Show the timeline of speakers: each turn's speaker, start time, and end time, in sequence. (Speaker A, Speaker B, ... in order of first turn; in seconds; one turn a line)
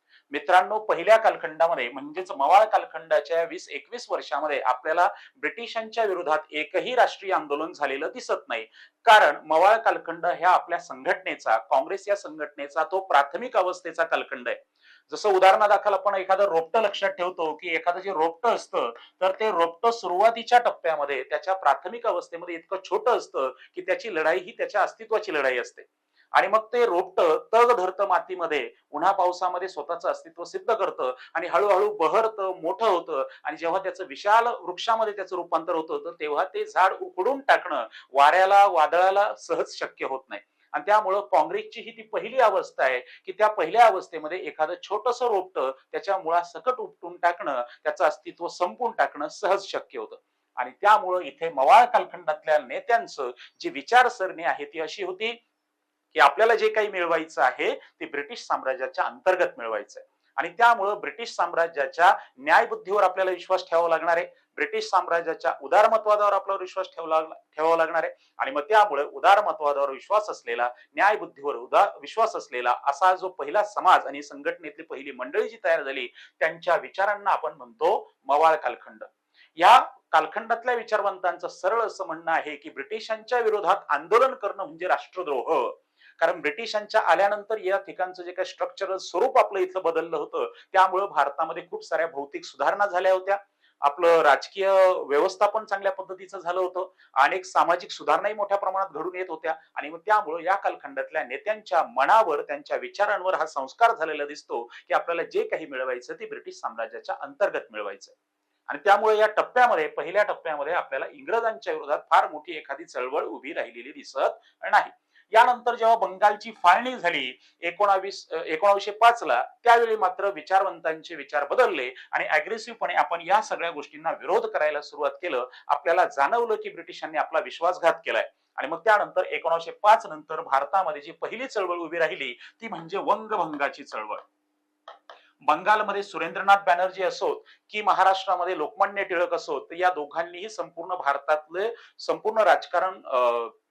Speaker A: 0.3-55.4
Speaker A: 56.1-108.1
Speaker A: 108.7-134.2
Speaker A: 135.4-143.5